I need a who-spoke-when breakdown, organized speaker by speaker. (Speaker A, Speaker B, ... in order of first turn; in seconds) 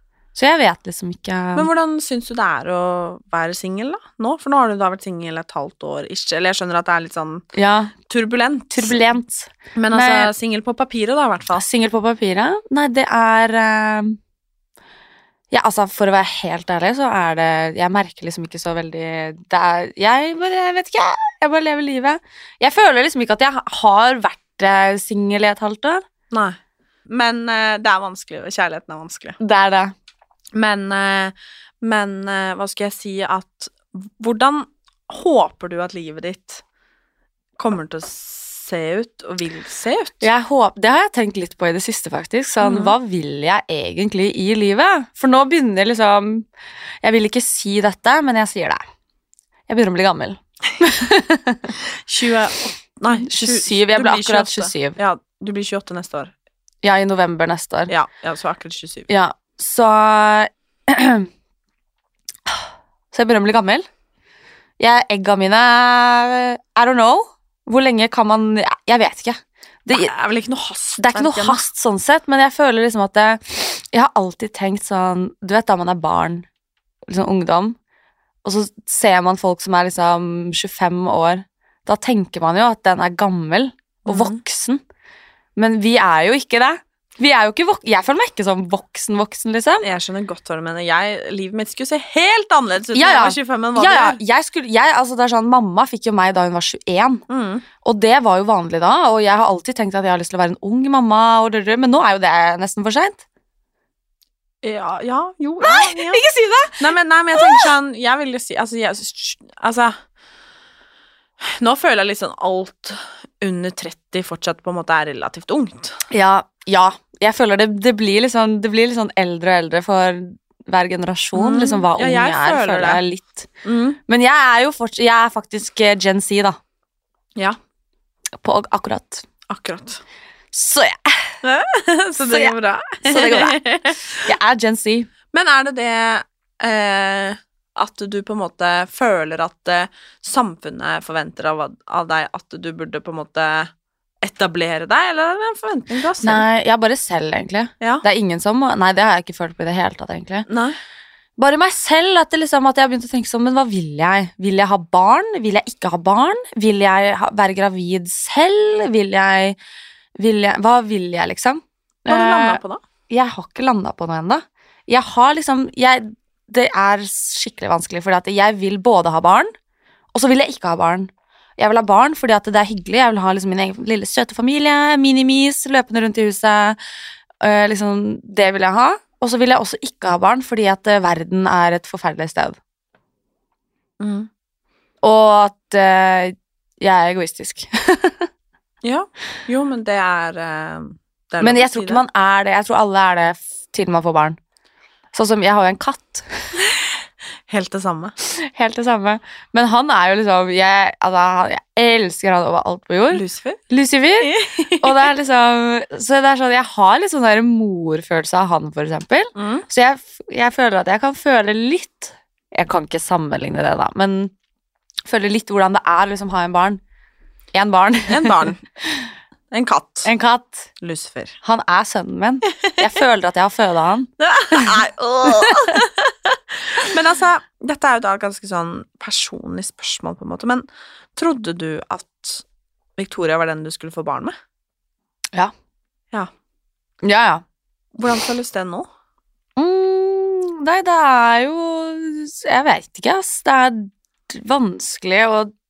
Speaker A: 0.3-1.7, 7.5-7.9, 8.7-10.3, 11.5-14.2, 15.5-26.1, 29.4-29.9, 40.2-46.5, 47.0-48.8, 49.7-51.7, 53.2-55.0, 56.8-57.9, 59.1-61.3, 62.5-63.9, 64.8-70.1, 71.0-76.5, 77.1-77.8, 78.4-84.8, 85.6-89.9, 93.0-97.2, 97.8-103.2, 105.6-107.7, 116.1-123.5, 124.1-126.6, 128.4-129.2, 130.5-131.3, 132.2-135.1, 146.2-150.5, 151.4-159.6, 160.2-169.5, 170.1-176.8, 177.4-182.6, 185.0-188.3, 191.4-194.4, 195.1-196.3, 198.2-214.3, 215.1-216.8, 217.5-219.0, 220.1-220.7, 221.4-225.8, 237.0-237.4, 239.6-245.5
Speaker B: 1.6-7.4, 8.1-9.0, 9.8-11.7, 26.3-26.6, 27.1-29.4, 30.5-36.6, 37.6-40.3, 42.6-43.0, 52.1-56.3, 57.9-59.1, 69.9-71.7, 84.1-84.4, 89.8-94.2, 97.3-97.7, 104.6-106.2, 106.8-110.0, 111.4-116.0, 121.3-123.0, 123.6-124.0, 129.5-130.0, 131.4-134.2, 135.3-143.7, 144.2-146.4, 150.5-150.8, 162.1-162.8, 184.0-184.3, 188.8-192.0, 197.5-198.1, 203.1-203.6, 204.2-205.1, 209.4-209.7, 218.1-218.6, 219.5-220.1, 220.8-221.4, 224.2-232.4, 233.0-234.4, 238.0-238.9